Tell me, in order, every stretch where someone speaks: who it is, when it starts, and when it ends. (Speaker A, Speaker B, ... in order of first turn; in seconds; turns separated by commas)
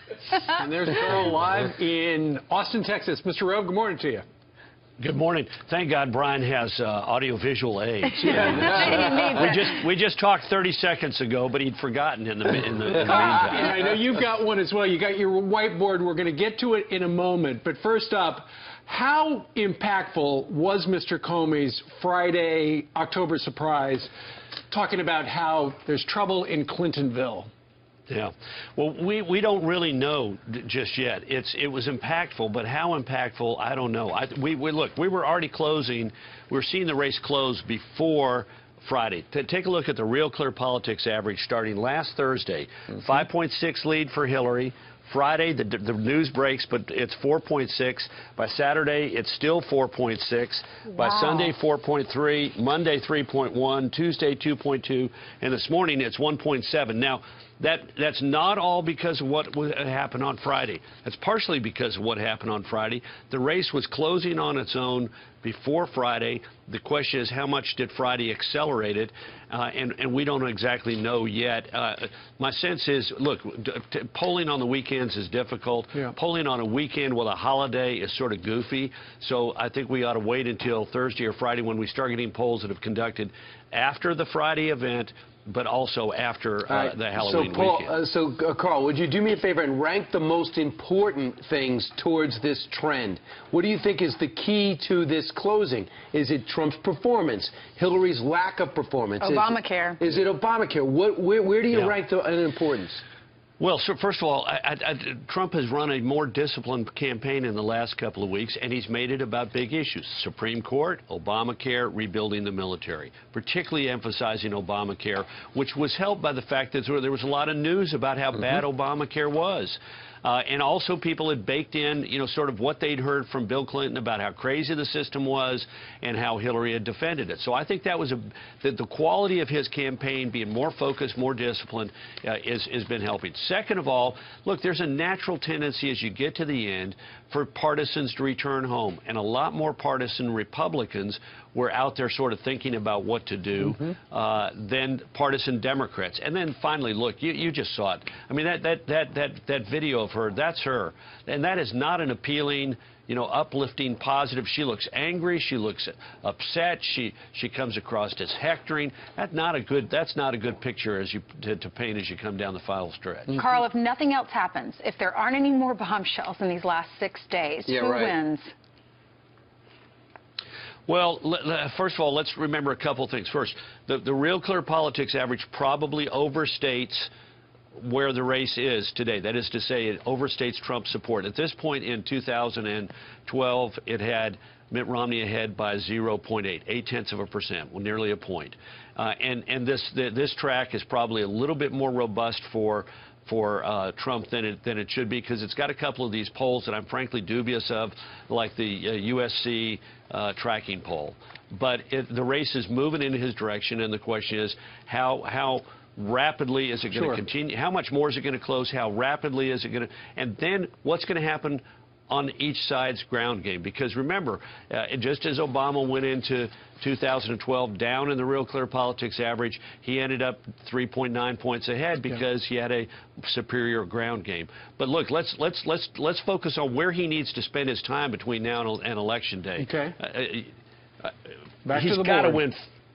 Speaker A: 0.4-4.2, Speaker B: 5.0-13.7, Speaker C: 8.3-9.3, Speaker D: 8.3-9.7, Speaker A: 12.9-24.1, Speaker A: 24.7-27.5, Speaker B: 28.1-87.9, Speaker C: 86.7-103.0, Speaker D: 99.2-100.0, Speaker B: 103.6-163.4, Speaker D: 163.3-168.5, Speaker C: 167.7-168.1, Speaker B: 170.9-177.1, Speaker B: 177.8-231.1, Speaker A: 206.9-207.2, Speaker A: 229.6-229.9, Speaker A: 231.7-232.4, Speaker B: 231.7-232.6